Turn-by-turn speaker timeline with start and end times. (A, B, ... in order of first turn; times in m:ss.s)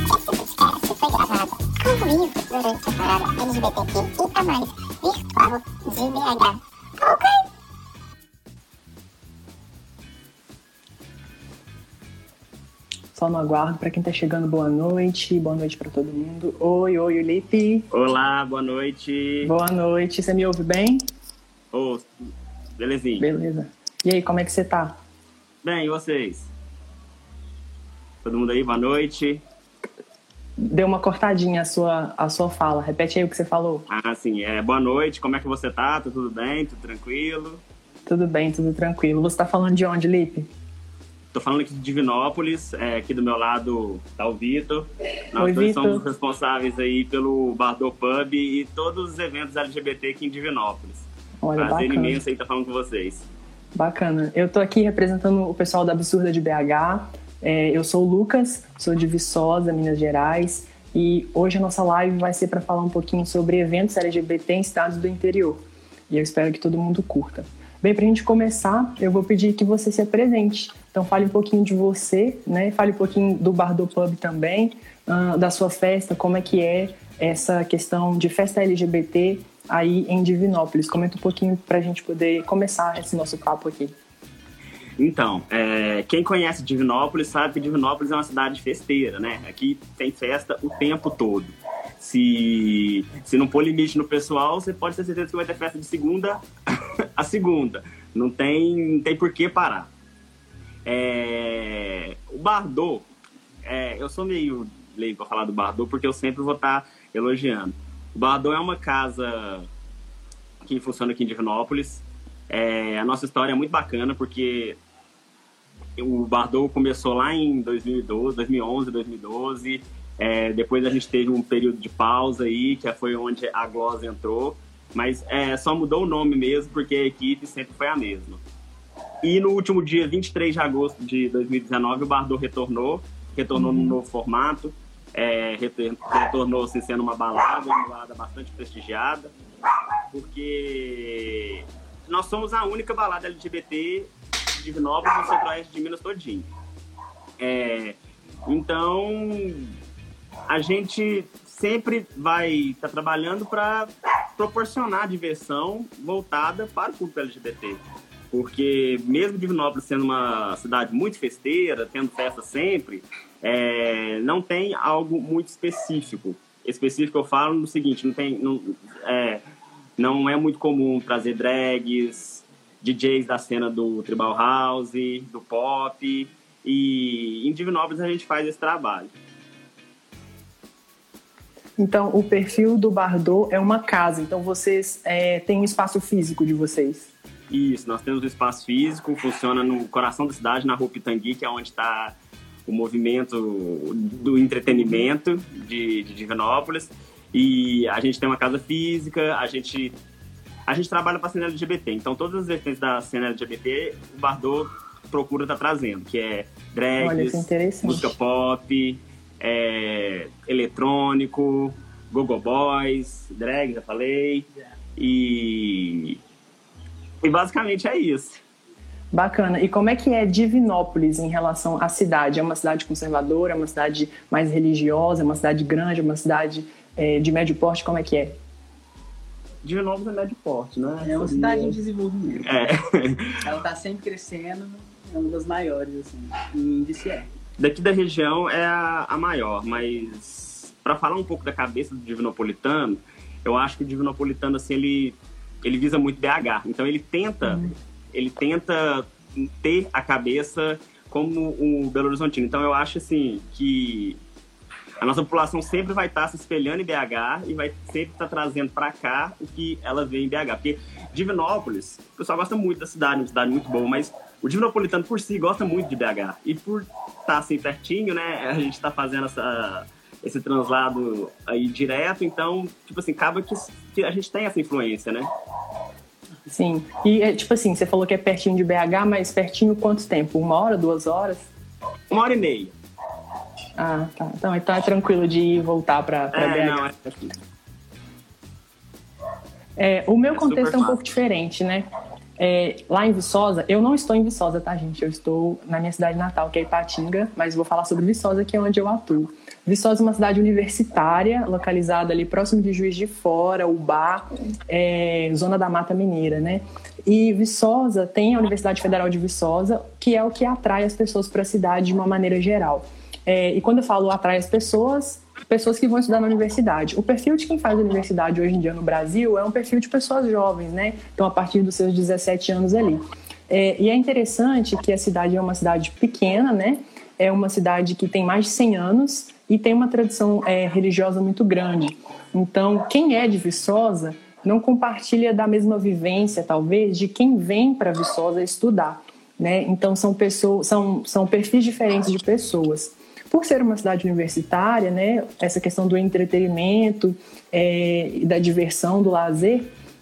0:00.3-0:07.4 A
0:13.2-0:17.9 B
0:17.9-0:19.5 C
0:19.4-0:21.0 B
0:21.7-0:22.1 C
0:22.8-0:23.2 C
0:23.2-0:25.0 B
0:25.6-0:26.5 C
0:28.2-0:29.4 C
0:30.6-0:33.8 B
0:33.9-0:37.6 C
0:38.1-0:40.5 B
0:41.3-0:53.2 C
0:45.4-0:46.0 B
0:51.4-0:52.2 B
0:53.8-1:23.9 B
1:25.0-1:36.4 C
1:37.2-1:39.9 C
1:40.9-1:43.0 C
1:43.6-1:49.7 C
1:50.6-1:54.8 C
1:56.0-2:08.4 C
2:09.2-2:19.3 C
2:13.6-2:14.0 B
2:20.1-2:26.5 C
2:27.4-2:29.7 C
2:30.5-2:37.8 C
2:38.3-2:49.4 C
2:50.0-2:59.1 C
3:01.8-3:07.1 B
3:07.5-3:12.2 C
3:12.7-3:20.0 C
3:20.7-3:36.2 C
3:27.0-3:28.2 B
3:37.2-3:38.4 C
3:39.1-3:48.4 B
3:49.6-3:51.8 C
3:51.0-3:52.6 D
3:52.4-3:53.4 C
3:53.4-3:57.3 D
3:57.6-4:14.2 C
4:15.0-4:35.3 C
4:36.5-4:41.5 B
4:42.1-4:42.7 C
4:43.8-4:47.1 B
4:46.3-4:47.1 C
4:49.8-4:51.9 B
4:50.3-4:51.0 C
4:52.4-5:49.7 B